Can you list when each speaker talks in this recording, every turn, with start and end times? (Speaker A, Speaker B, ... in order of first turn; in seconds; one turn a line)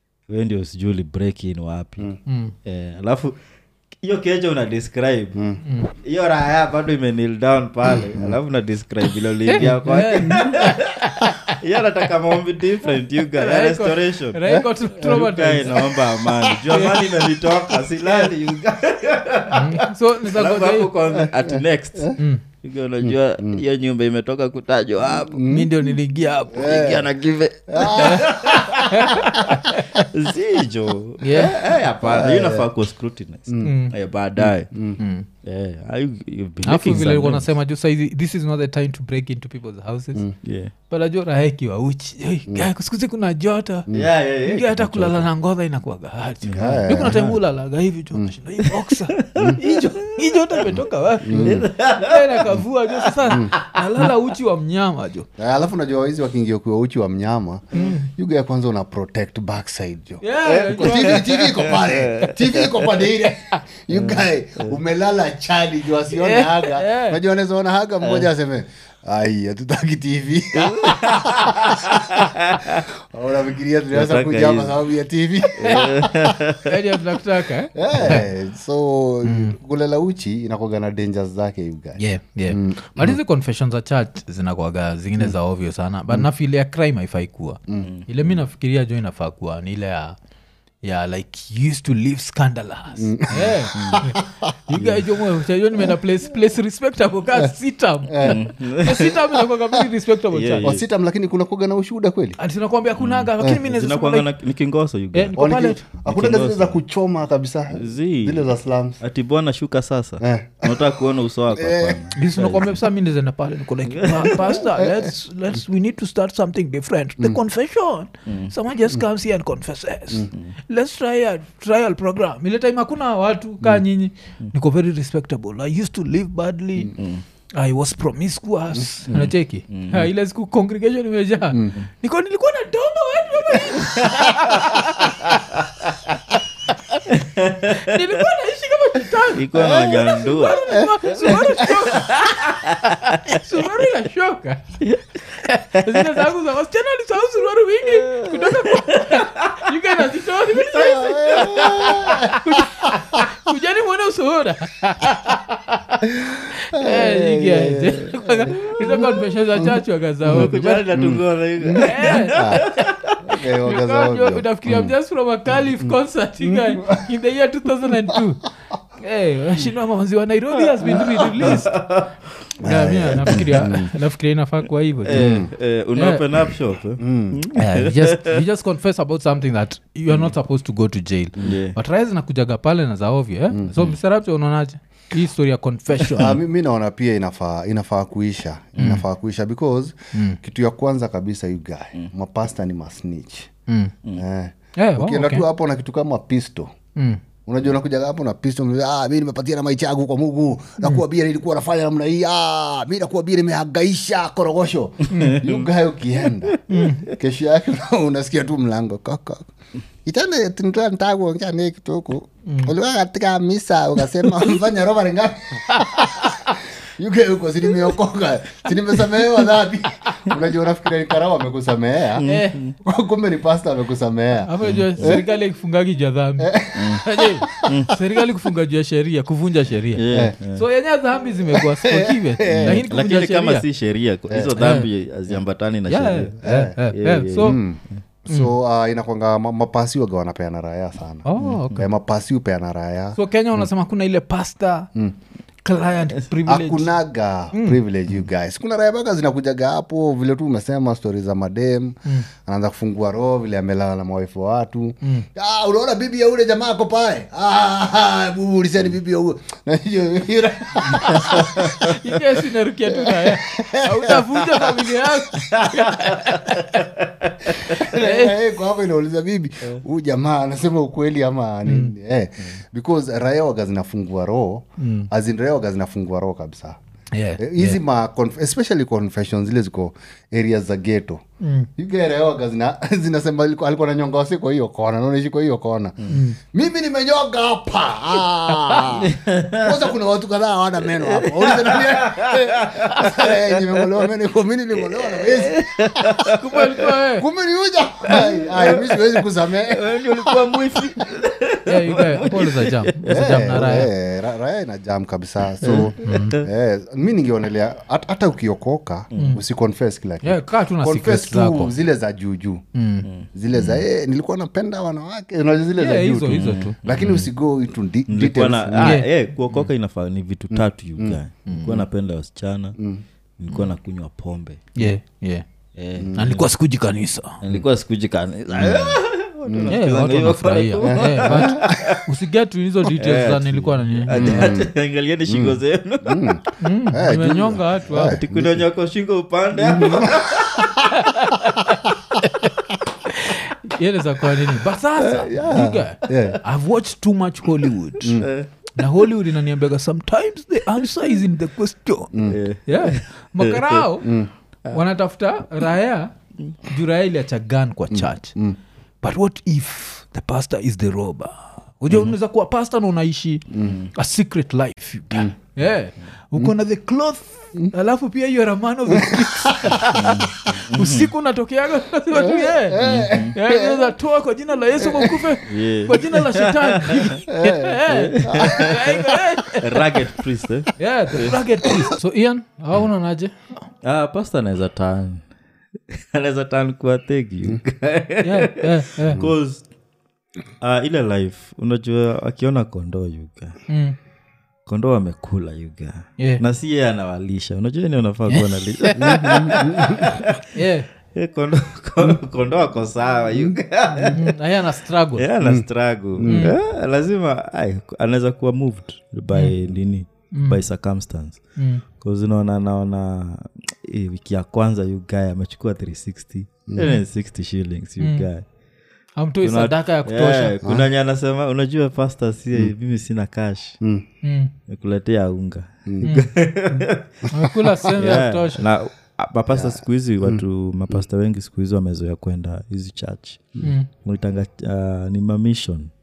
Speaker A: 0.3-3.4
Speaker B: 2.3-2.5
Speaker A: 4.0-5.4
Speaker C: 5.3-5.6
Speaker B: 5.6-5.9
Speaker A: 6.0-25.5
Speaker C: 8.1-8.3
Speaker B: 9.5-11.6
Speaker B: 13.3-18.3
Speaker B: 19.5-20.9
Speaker C: 21.1-22.1
Speaker B: 22.2-22.4
Speaker C: 23.0-23.6
Speaker C: 25.1-25.7
Speaker B: 25.5-26.9
Speaker C: 26.5-27.1
Speaker A: 26.5-34.7
Speaker C: 27.7-28.8
Speaker B: 27.9-30.0
Speaker B: 31.2-31.6
Speaker C: 32.0-32.7
Speaker B: 33.6-33.9
Speaker C: 34.4-35.0
Speaker B: 35.0-35.3
Speaker A: 35.4-37.5
Speaker B: 36.6-40.2
Speaker A: 40.4-40.7
Speaker B: 40.9-43.9
Speaker A: 43.9-45.3
Speaker B: 44.4-55.3
Speaker A: 46.5-47.4
Speaker C: 46.6-47.2
Speaker A: 49.2-50.7
Speaker C: 49.4-49.7
Speaker C: 50.7-51.7
Speaker A: 51.3-54.1
Speaker C: 55.4-72.2
Speaker B: 57.7-58.1
Speaker B: 60.2-61.4
Speaker A: 60.5-62.9
Speaker A: 63.9-64.8
Speaker B: 66.1-67.2
Speaker A: 68.0-68.3
Speaker A: 70.6-72.9
Speaker C: 72.8-76.4
Speaker A: 73.9-74.8
Speaker A: 75.6-76.7
Speaker B: 76.6-78.3
Speaker C: 77.7-83.2
Speaker B: 79.2-79.5
Speaker B: 82.0-90.2
Speaker B: 90.8-100.7
Speaker C: 93.0-94.9
Speaker A: 93.7-94.0
Speaker C: 98.1-98.4
Speaker A: 98.2-99.3
Speaker A: 100.3-100.8
Speaker C: 100.6-102.4
Speaker B: 102.4-104.3
Speaker A: 103.0-105.4
Speaker B: 105.1-105.8
Speaker C: 105.4-109.0
Speaker A: 105.9-106.8
Speaker A: 107.7-112.7
Speaker C: 110.2-112.1
Speaker B: 112.1-127.0
Speaker A: 113.9-114.6
Speaker C: 114.5-115.1
Speaker A: 118.3-118.5
Speaker A: 126.9-127.2
Speaker B: 127.5-135.4
Speaker A: 129.1-130.1
Speaker A: 134.0-134.6
Speaker B: 136.7-137.1
Speaker A: 137.1-138.0
Speaker B: 137.6-144.8
Speaker A: 139.3-143.4
Speaker C: 139.6-141.8
Speaker A: 144.8-145.2
Speaker B: 145.4-160.9
Speaker A: 145.7-146.2
Speaker A: 147.9-149.7
Speaker A: 150.5-152.4
Speaker C: 150.7-152.4
Speaker C: 156.1-162.6
Speaker A: 160.3-163.1
Speaker B: 161.8-162.8
Speaker C: 163.2-164.9
Speaker B: 163.6-168.4
Speaker C: 165.8-167.0
Speaker B: 169.0-171.7
Speaker A: 170.9-172.2
Speaker C: 172.6-173.9
Speaker B: 172.6-175.4
Speaker A: 173.3-173.7
Speaker A: 175.1-178.4
Speaker C: 175.1-175.5
Speaker B: 175.9-176.2
Speaker C: 177.0-177.4
Speaker B: 177.5-186.4
Speaker A: 181.4-181.8
Speaker C: 186.1-193.5
Speaker B: 188.8-189.0
Speaker B: 193.7-193.9
Speaker C: 194.2-196.7
Speaker B: 194.8-195.4
Speaker B: 196.9-197.2
Speaker C: 197.5-209.5
Speaker B: 205.1-205.4
Speaker A: 205.2-205.5
Speaker A: 206.5-206.9
Speaker B: 206.7-207.1
Speaker C: 210.1-222.2
Speaker B: 212.4-212.7
Speaker B: 215.7-216.3
Speaker A: 222.2-222.7
Speaker B: 222.2-222.6
Speaker C: 222.8-225.2
Speaker B: 224.4-233.6
Speaker A: 224.6-225.2
Speaker C: 226.4-227.8
Speaker A: 226.7-227.9
Speaker A: 229.9-230.6
Speaker C: 230.1-230.4
Speaker C: 231.5-232.9
Speaker A: 232.5-237.6
Speaker B: 234.6-234.9
Speaker B: 235.9-237.6
Speaker C: 236.4-236.7
Speaker C: 237.4-243.2
Speaker B: 238.3-238.5
Speaker B: 241.3-241.8
Speaker B: 243.2-244.9
Speaker B: 245.6-246.9
Speaker C: 246.4-261.8
Speaker B: 247.5-247.8
Speaker B: 260.9-266.8
Speaker A: 261.2-261.7
Speaker C: 262.9-265.2
Speaker A: 265.5-267.9
Speaker C: 267.6-276.8
Speaker B: 267.7-268.4
Speaker B: 271.6-271.9
Speaker B: 274.8-275.1
Speaker B: 277.1-277.8
Speaker C: 277.4-281.2
Speaker B: 281.4-281.7
Speaker C: 281.8-296.4
Speaker B: 286.1-286.4
Speaker A: 289.0-289.8
Speaker A: 290.9-294.1
Speaker A: 294.8-296.9
Speaker B: 296.3-297.3
Speaker C: 297.2-300.6
Speaker A: 298.1-303.4
Speaker B: 301.6-303.9
Speaker C: 303.1-312.6
Speaker A: 305.6-306.4
Speaker B: 306.0-306.4
Speaker A: 309.1-309.4
Speaker B: 309.1-309.4
Speaker B: 310.2-311.7
Speaker B: 312.7-313.1
Speaker A: 313.1-313.8
Speaker C: 313.3-319.0
Speaker B: 315.8-316.7
Speaker A: 316.3-317.3
Speaker A: 318.1-322.8
Speaker B: 318.8-319.6
Speaker C: 320.5-321.2
Speaker B: 321.5-321.8
Speaker A: 323.4-324.8
Speaker B: 324.8-325.4
Speaker A: 325.8-326.4
Speaker C: 326.0-326.2
Speaker B: 326.1-327.4
Speaker A: 327.4-332.1
Speaker C: 328.5-329.7
Speaker B: 329.7-334.6
Speaker C: 330.8-331.9
Speaker A: 332.9-336.4
Speaker C: 334.1-334.7
Speaker C: 335.3-338.6
Speaker B: 336.6-338.2
Speaker A: 337.9-341.3
Speaker C: 339.6-340.9
Speaker B: 340.9-342.5
Speaker B: 343.1-348.2
Speaker C: 345.0-346.4
Speaker A: 346.1-346.4
Speaker C: 348.0-348.3
Speaker A: 348.1-348.7
Speaker B: 348.8-352.1
Speaker C: 352.1-352.4
Speaker A: 352.3-353.8
Speaker B: 352.7-354.1
Speaker C: 354.0-354.3
Speaker B: 354.7-358.4
Speaker C: 357.9-358.6
Speaker B: 359.0-380.0
Speaker C: 363.5-363.8
Speaker C: 368.9-369.9
Speaker A: 369.9-371.1
Speaker C: 372.1-373.9
Speaker A: 372.8-373.3
Speaker C: 374.8-375.3
Speaker A: 375.4-377.1
Speaker C: 377.3-378.9
Speaker A: 377.9-381.4
Speaker B: 380.8-383.5
Speaker A: 383.8-385.2
Speaker A: 385.9-389.6
Speaker B: 388.2-389.2
Speaker A: 390.6-393.6
Speaker B: 393.7-393.9
Speaker A: 394.7-400.5
Speaker B: 398.3-398.9
Speaker C: 398.9-400.2
Speaker B: 399.9-400.9
Speaker A: 401.1-404.3
Speaker B: 404.0-405.3
Speaker A: 405.2-411.4
Speaker C: 405.4-406.5
Speaker B: 406.3-406.5
Speaker B: 410.3-410.6
Speaker B: 411.6-411.8
Speaker A: 412.0-418.4
Speaker C: 416.7-417.0
Speaker B: 418.0-418.3
Speaker B: 419.2-420.6
Speaker A: 419.4-423.8
Speaker B: 424.2-424.5
Speaker A: 424.7-427.3
Speaker C: 425.9-426.1
Speaker B: 426.0-428.6
Speaker C: 427.4-428.2
Speaker A: 428.0-435.9
Speaker C: 429.5-430.4
Speaker B: 433.6-433.9